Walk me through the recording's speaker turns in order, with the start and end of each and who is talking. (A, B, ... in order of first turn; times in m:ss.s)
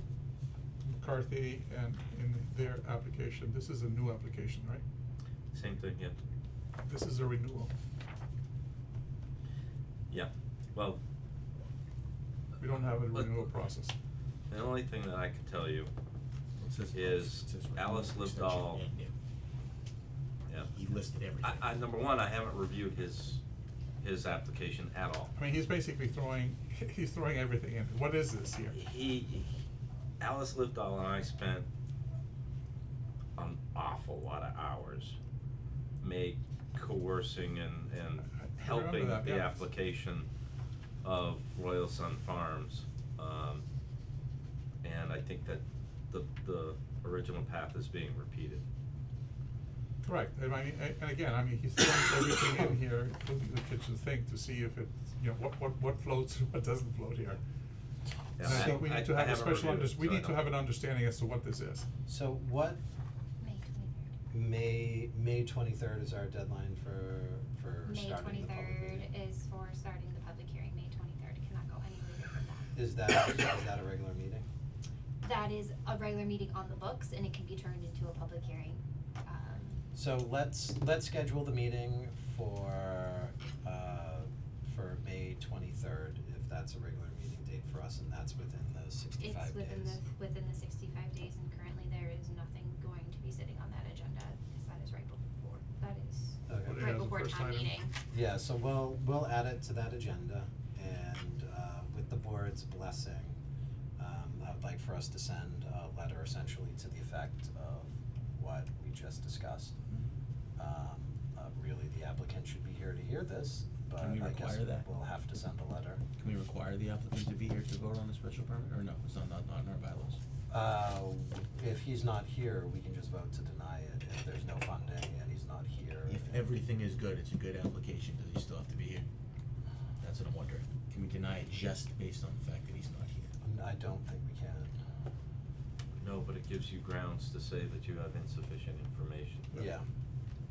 0:00.8-0:04.8 A
0:05.5-0:06.2 B
0:06.9-0:07.7 A
0:10.1-0:11.0 B
0:12.6-0:13.9 A
0:12.7-0:13.5 B
0:14.5-0:15.9 B
0:16.6-0:19.1 C
0:16.9-0:18.8 B
0:20.7-0:21.7 C
0:21.4-0:23.4 B
0:24.0-0:25.3 B
0:25.4-0:28.8 A
0:28.7-0:29.5 B
0:30.2-0:31.7 B
0:33.4-0:35.2 B
0:36.0-0:40.3 B
0:38.2-0:39.6 A
0:41.0-0:43.6 B
0:44.8-0:48.6 B
0:50.0-0:57.4 A
0:58.4-1:00.5 B
0:58.4-1:01.9 A
1:02.1-1:02.8 D
1:03.4-1:04.1 E
1:04.3-1:09.1 D
1:07.8-1:12.8 E
1:12.8-1:14.5 D
1:15.2-1:19.8 E
1:19.9-1:30.0 D
1:29.2-1:37.9 E
1:36.5-1:36.9 D
1:36.6-1:37.8 A
1:38.1-1:43.4 D
1:44.0-1:49.8 D
1:50.6-1:56.0 D
1:54.0-1:54.9 C
1:56.2-2:00.2 C
2:00.5-2:06.6 D
2:06.1-2:09.1 C
2:10.0-2:13.3 C
2:13.4-2:14.7 D
2:16.0-2:19.5 B
2:19.5-2:19.9 D